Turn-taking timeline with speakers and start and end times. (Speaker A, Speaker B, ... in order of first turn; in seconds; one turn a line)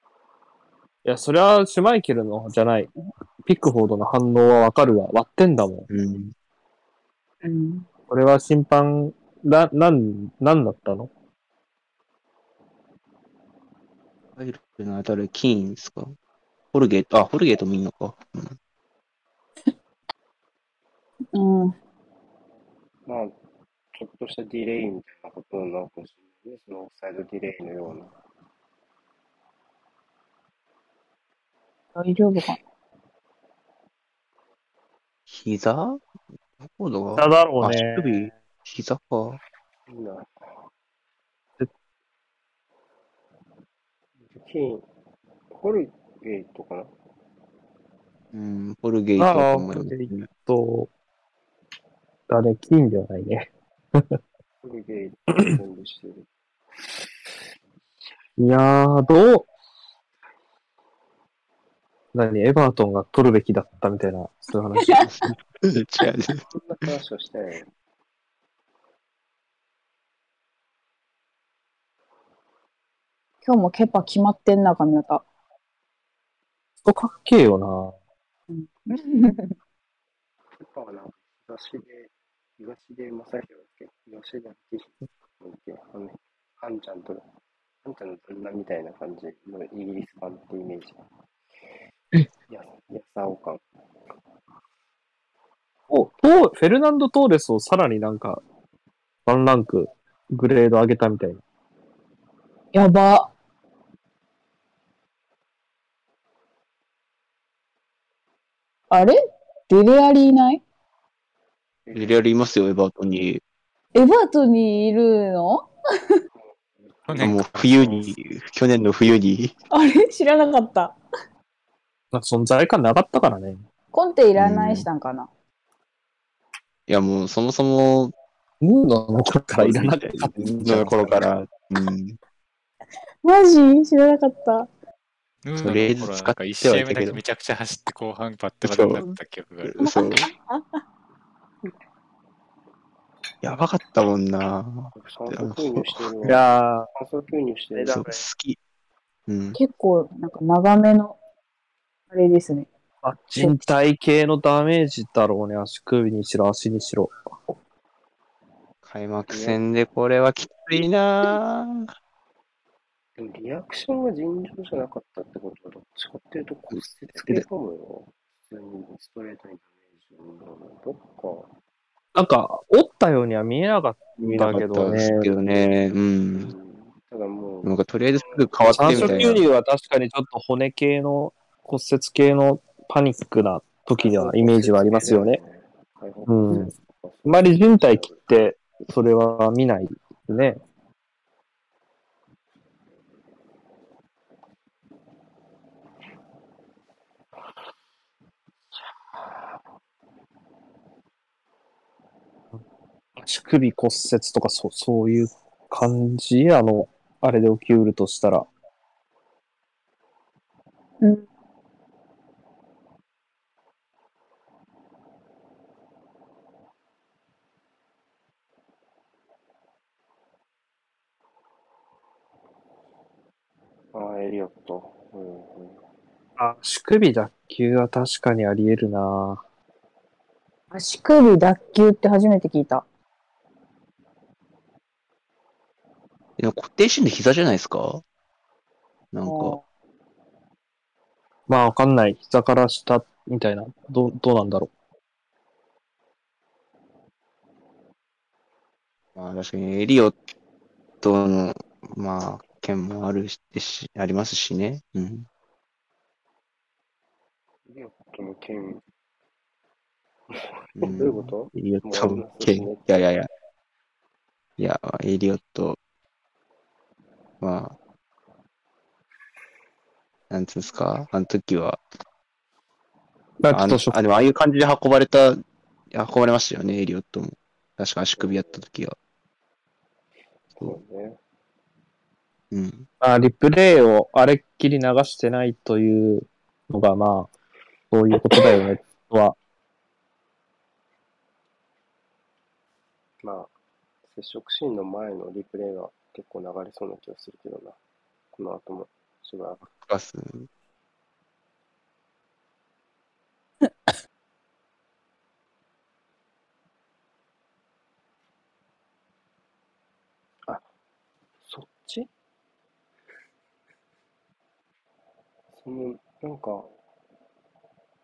Speaker A: 1.1-2.9
Speaker A: 3.4-5.9
Speaker B: 5.9-6.3
Speaker C: 7.4-7.9
Speaker A: 8.1-11.1
Speaker B: 14.4-16.1
Speaker B: 16.7-18.6
Speaker C: 21.3-21.8
Speaker D: 23.1-23.4
Speaker D: 23.9-28.1
Speaker C: 32.0-32.6
Speaker B: 35.3-36.0
Speaker B: 36.6-39.4
Speaker A: 37.2-38.3
Speaker D: 39.9-40.3
Speaker D: 44.3-44.9
Speaker D: 45.5-46.9
Speaker B: 48.3-50.3
Speaker A: 49.2-50.9
Speaker A: 52.3-54.2
Speaker D: 54.6-56.3
Speaker A: 58.4-59.5
Speaker A: 62.1-65.1
Speaker C: 64.9-65.3
Speaker B: 65.0-66.5
Speaker D: 66.5-67.7
Speaker C: 73.4-75.2
Speaker A: 76.8-78.0
Speaker C: 78.5-79.5
Speaker D: 80.6-87.2
Speaker D: 87.8-91.0
Speaker D: 92.5-93.6
Speaker A: 95.9-98.4
Speaker A: 99.3-101.4
Speaker C: 102.7-103.3
Speaker C: 108.9-109.2
Speaker C: 109.7-110.6
Speaker D: 111.8-112.2
Speaker B: 111.9-113.4
Speaker C: 113.9-116.2
Speaker D: 116.4-117.4
Speaker E: 117.1-118.0
Speaker B: 117.2-119.5
Speaker C: 119.7-121.0
Speaker A: 122.1-123.7
Speaker C: 123.9-125.3
Speaker B: 124.4-124.9
Speaker B: 126.9-128.1
Speaker A: 128.6-131.2
Speaker B: 129.6-132.2
Speaker C: 133.2-134.7
Speaker E: 135.4-139.8
Speaker B: 135.6-137.2
Speaker B: 138.6-139.0
Speaker B: 139.6-140.3
Speaker C: 139.8-140.8
Speaker B: 143.4-146.4
Speaker D: 144.9-148.0
Speaker A: 146.2-146.9
Speaker A: 147.7-148.2
Speaker B: 147.9-148.6
Speaker B: 149.3-149.6
Speaker C: 149.5-151.2
Speaker C: 152.1-152.7
Speaker A: 153.0-157.1
Speaker B: 158.8-161.9
Speaker D: 159.3-159.6
Speaker D: 163.2-171.5
Speaker A: 172.2-175.3
Speaker B: 174.2-176.5
Speaker D: 175.3-175.6
Speaker D: 176.3-179.4
Speaker B: 177.6-179.4
Speaker A: 178.8-185.4
Speaker D: 184.0-188.3
Speaker A: 186.3-186.7
Speaker A: 187.2-190.6
Speaker A: 203.2-208.5
Speaker C: 211.0-211.3
Speaker D: 223.9-225.8
Speaker A: 226.4-229.4
Speaker C: 230.7-232.8
Speaker B: 236.4-238.0
Speaker B: 239.1-239.6
Speaker C: 239.3-239.6
Speaker A: 241.5-244.7
Speaker B: 249.2-250.2
Speaker B: 251.0-255.3
Speaker D: 257.7-258.8
Speaker D: 260.3-263.0
Speaker B: 260.8-263.3
Speaker B: 264.6-265.8
Speaker B: 267.4-267.8
Speaker B: 270.3-271.8
Speaker A: 273.4-274.0
Speaker B: 273.5-275.4
Speaker B: 275.9-279.0
Speaker D: 278.2-278.6
Speaker D: 280.5-281.2
Speaker B: 282.5-282.9
Speaker A: 283.0-287.3
Speaker A: 287.9-289.4
Speaker D: 293.2-293.5
Speaker D: 294.1-297.8
Speaker D: 298.3-299.7
Speaker B: 299.7-300.5
Speaker D: 311.4-312.1
Speaker D: 315.6-316.7